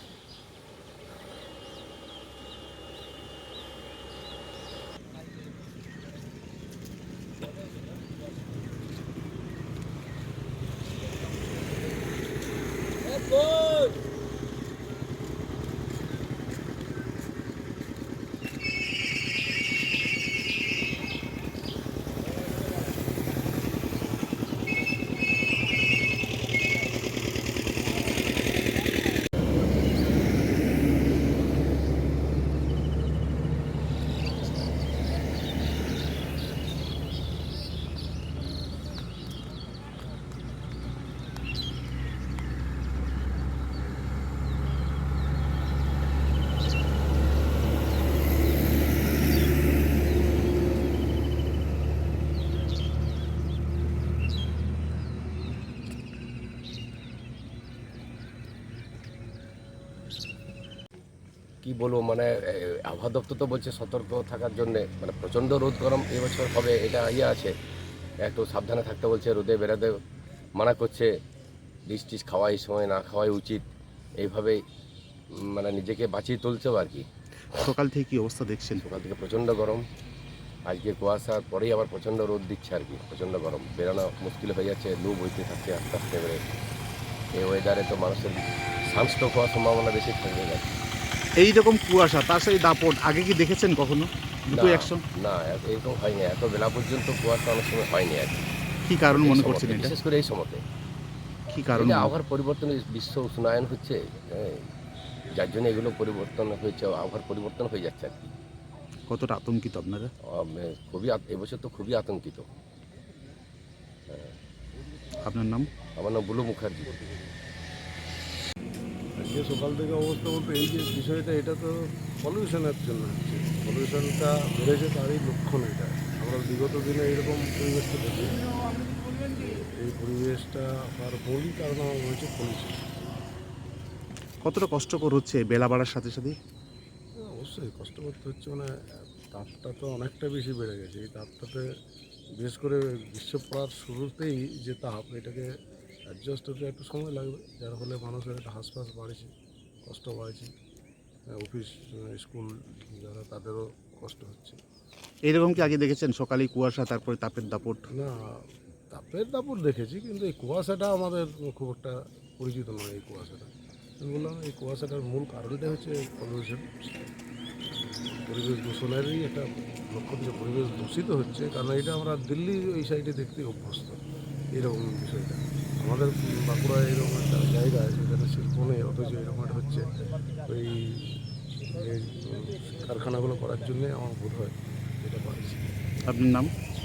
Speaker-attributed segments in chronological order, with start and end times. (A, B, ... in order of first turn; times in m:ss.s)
1:01.6-1:07.5 A
1:08.2-1:10.0 A
1:10.6-1:11.1 A
1:11.9-1:13.6 A
1:14.2-1:14.6 A
1:15.3-1:17.0 A
1:17.5-1:18.8 B
1:18.8-1:19.8 A
1:20.7-1:26.4 A
1:27.4-1:30.7 A
1:31.4-1:35.0 B
1:34.5-1:38.5 A
1:38.9-1:39.9 B
1:39.1-1:40.6 A
1:41.5-1:42.1 B
1:41.8-1:44.6 A
1:45.3-1:48.3 A
1:49.1-1:50.1 B
1:50.3-1:52.4 A
1:54.1-1:54.3 A
1:55.3-1:55.7 B
1:56.0-1:57.0 A
1:59.2-2:12.8 C
2:14.4-2:16.4 B
2:17.2-2:18.7 C
2:19.3-2:21.6 C
2:22.4-2:25.5 C
2:26.1-2:29.3 C
2:29.8-2:30.5 C
2:31.4-2:34.6 C
2:35.3-2:37.8 B
2:37.9-2:43.5 C
2:44.0-2:47.1 C
2:48.1-2:54.0 C
2:54.6-2:59.9 C
3:00.4-3:01.1 C
3:01.7-3:05.7 C
3:06.1-3:06.5 B